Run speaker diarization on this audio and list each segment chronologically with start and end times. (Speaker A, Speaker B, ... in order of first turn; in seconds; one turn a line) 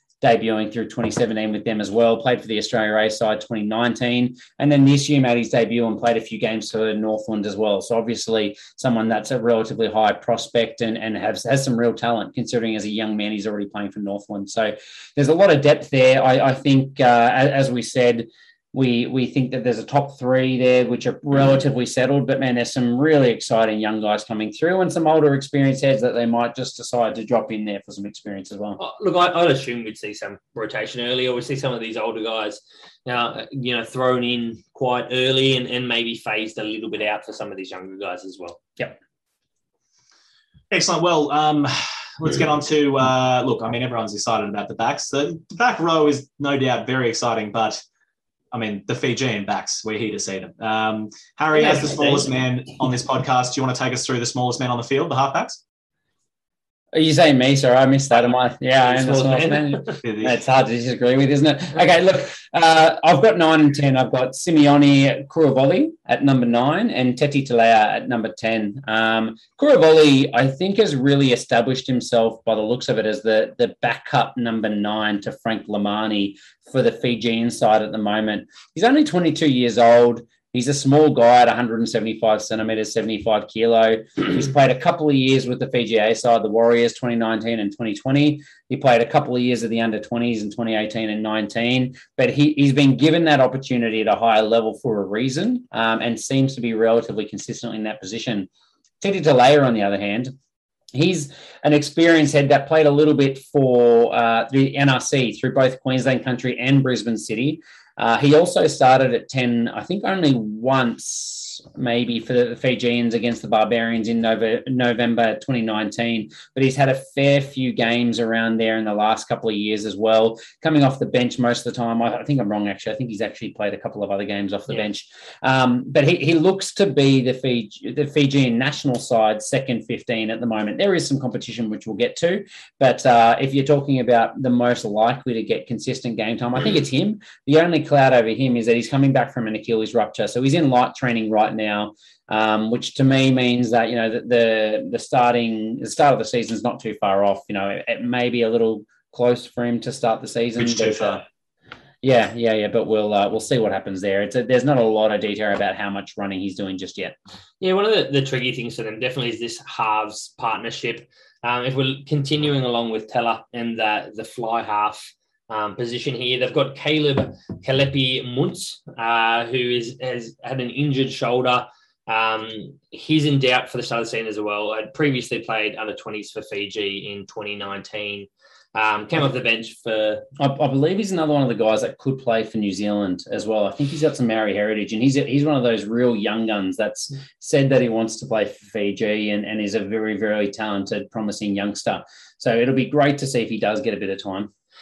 Speaker A: 0.2-28.8
Speaker B: 28.8-38.6
Speaker C: 40.7-47.8
Speaker C: 48.5-55.6
Speaker B: 51.5-52.3
Speaker A: 56.9-98.5
Speaker B: 58.8-60.0
Speaker C: 60.0-60.4
Speaker A: 99.0-100.3
Speaker A: 100.9-151.2
Speaker C: 150.6-151.2
Speaker A: 152.0-157.2
Speaker B: 157.6-180.3
Speaker A: 180.4-194.5